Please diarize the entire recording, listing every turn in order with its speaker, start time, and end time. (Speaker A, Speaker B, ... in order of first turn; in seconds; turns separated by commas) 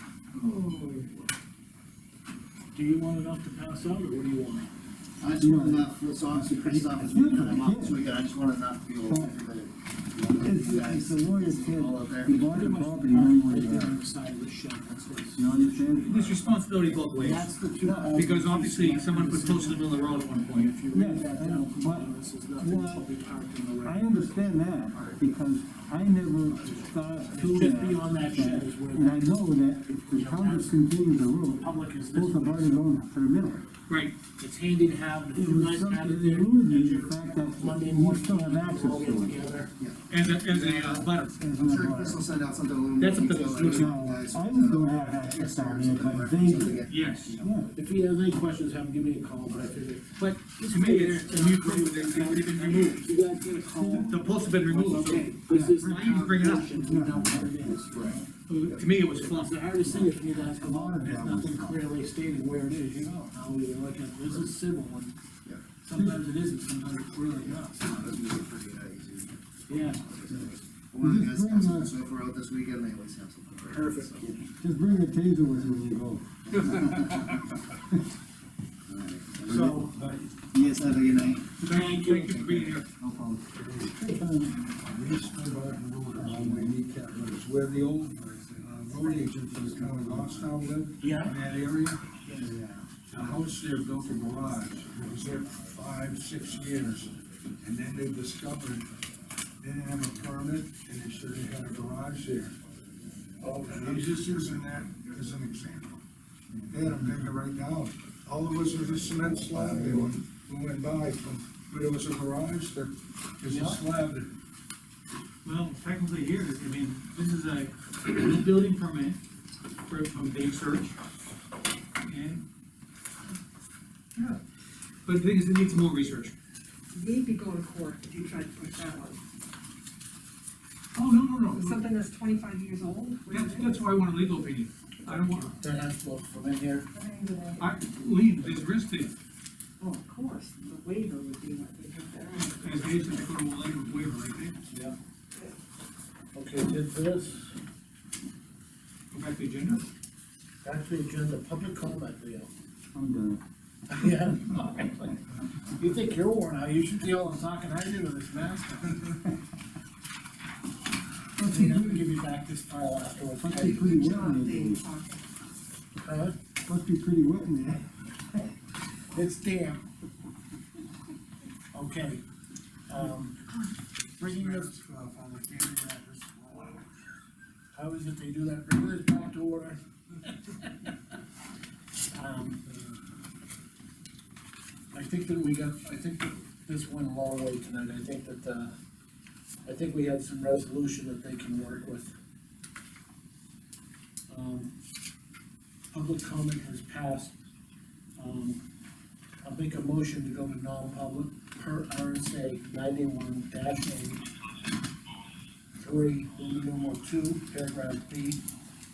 Speaker A: 2.7-4.7, Speaker B: 5.2-12.5, Speaker C: 5.3-8.0, Speaker C: 9.0-9.3, Speaker C: 10.4-14.0, Speaker A: 12.5-16.4, Speaker C: 15.3-16.2, Speaker D: 16.0-17.5, Speaker A: 17.1-24.4, Speaker D: 18.1-20.7, Speaker C: 20.9-23.1, Speaker C: 23.8-33.6, Speaker A: 27.3-33.0, Speaker D: 33.9-34.2, Speaker A: 34.4-39.7, Speaker C: 35.3-39.4, Speaker B: 39.8-47.7, Speaker D: 40.1-41.4, Speaker C: 41.4-42.2, Speaker D: 43.0-43.7, Speaker A: 43.0-43.9, Speaker C: 43.6-46.8, Speaker D: 46.9-47.4, Speaker C: 47.4-47.7, Speaker A: 47.7-58.2, Speaker D: 50.2-53.0, Speaker C: 53.6-54.1, Speaker D: 54.0-56.8, Speaker C: 55.5-58.2, Speaker B: 57.9-58.8, Speaker D: 58.5-59.8, Speaker A: 59.0-65.1, Speaker C: 60.3-61.8, Speaker A: 65.8-68.0, Speaker C: 65.9-66.2, Speaker B: 67.4-74.4, Speaker A: 69.7-70.0, Speaker C: 71.0-71.9, Speaker A: 73.7-74.1, Speaker C: 74.2-77.1, Speaker B: 76.5-77.4, Speaker D: 76.7-77.2, Speaker B: 78.9-79.8, Speaker A: 79.5-80.0, Speaker E: 79.5-79.9, Speaker B: 80.5-81.6, Speaker D: 81.6-82.9, Speaker A: 81.7-82.6, Speaker C: 82.9-84.7, Speaker E: 84.8-92.1, Speaker C: 86.1-86.7, Speaker C: 87.9-90.5, Speaker A: 91.0-91.4, Speaker C: 92.2-92.9, Speaker E: 93.1-98.9, Speaker E: 99.6-102.5, Speaker A: 103.4-104.2, Speaker E: 103.6-106.0, Speaker C: 106.6-107.3, Speaker E: 106.7-114.3, Speaker C: 109.5-110.2, Speaker A: 113.5-113.8, Speaker D: 115.4-119.2, Speaker D: 119.8-121.0, Speaker D: 122.0-122.4, Speaker D: 125.0-126.3, Speaker F: 126.9-129.2, Speaker D: 130.9-131.8, Speaker F: 131.5-133.9, Speaker D: 133.3-135.5, Speaker A: 135.3-136.9, Speaker F: 136.9-137.6, Speaker D: 137.6-139.1, Speaker F: 139.8-143.1, Speaker D: 142.5-144.6, Speaker A: 144.7-144.9, Speaker A: 146.3-147.5, Speaker D: 149.1-149.8, Speaker A: 150.6-152.5, Speaker C: 152.9-153.4, Speaker A: 153.9-155.2, Speaker A: 155.7-159.2, Speaker C: 161.4-162.1, Speaker A: 161.4-163.8, Speaker C: 163.4-164.8, Speaker F: 163.5-165.2, Speaker A: 166.0-166.3, Speaker C: 166.6-167.8, Speaker A: 169.1-169.8, Speaker A: 171.7-172.2, Speaker A: 172.9-173.5, Speaker A: 174.2-174.7, Speaker E: 174.2-176.8, Speaker A: 177.7-179.8, Speaker A: 182.1-182.7, Speaker A: 184.9-188.7, Speaker A: 189.6-192.1, Speaker A: 194.3-194.7, Speaker A: 195.9-197.3, Speaker A: 198.2-198.6, Speaker A: 199.4-204.2, Speaker A: 205.8-208.4